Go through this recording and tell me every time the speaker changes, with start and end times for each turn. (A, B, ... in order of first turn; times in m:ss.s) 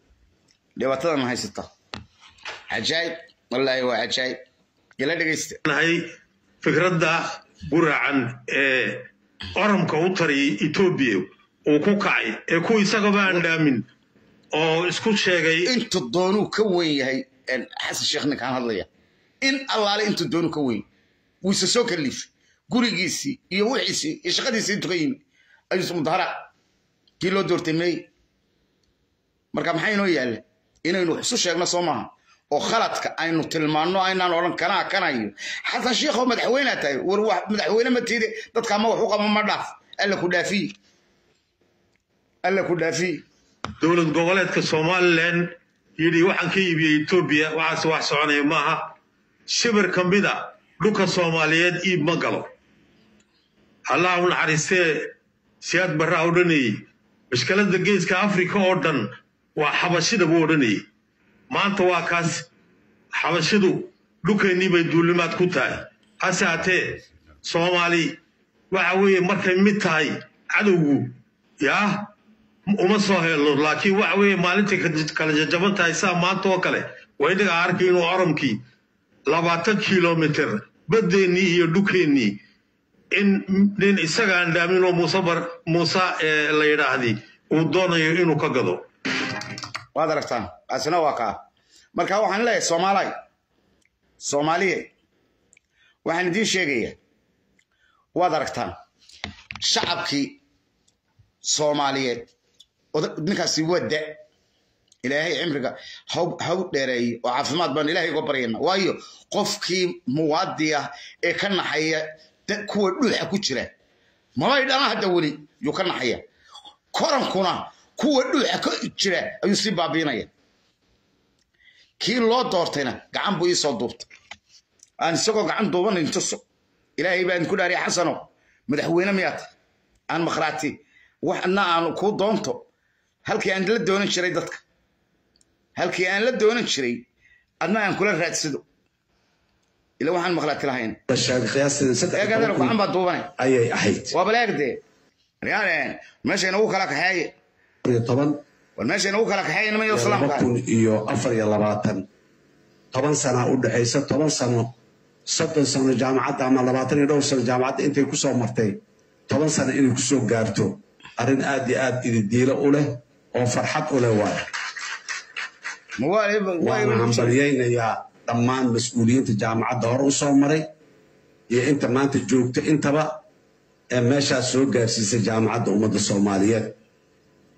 0:00.8-0:01.7 A
0:02.7-0:04.4 A
0:05.0-0:05.6 A
0:05.6-0:06.0 B
0:06.6-0:13.9 B
0:14.5-0:15.7 B
0:15.6-0:18.9 A
0:19.4-0:20.9 A
0:21.4-0:25.2 A
0:25.7-0:26.4 A
0:27.2-0:28.1 A
0:29.5-0:40.7 A
0:42.4-0:43.2 A
0:43.8-0:49.0 B
0:49.5-0:52.5 B
0:53.9-1:00.8 B
1:01.5-1:02.5 B
1:03.1-1:08.2 B
1:08.7-1:12.1 B
1:12.7-1:18.6 B
1:19.3-1:22.4 B
1:23.1-1:28.8 B
1:30.0-1:31.4 A
1:32.0-1:33.1 A
1:34.2-1:34.9 A
1:36.0-1:37.0 A
1:38.2-1:38.8 A
1:39.6-1:40.4 A
1:41.4-1:42.3 A
1:42.9-1:44.2 A
1:45.0-1:53.7 A
1:54.4-1:56.2 A
1:56.9-2:00.3 A
2:02.0-2:04.1 A
2:05.0-2:06.4 A
2:07.0-2:09.5 A
2:10.1-2:12.7 A
2:13.3-2:14.6 A
2:15.8-2:17.0 A
2:17.6-2:18.6 A
2:20.0-2:21.0 A
2:21.1-2:22.8 C
2:22.2-2:23.3 A
2:23.4-2:24.1 C
2:24.1-2:24.8 A
2:25.4-2:27.3 A
2:27.8-2:28.4 C
2:28.8-2:30.5 A
2:29.9-2:32.0 C
2:32.9-2:34.7 C
2:35.3-2:44.4 C
2:46.0-2:47.4 A
2:46.6-2:50.7 C
2:51.5-2:53.2 C
2:53.9-2:56.8 C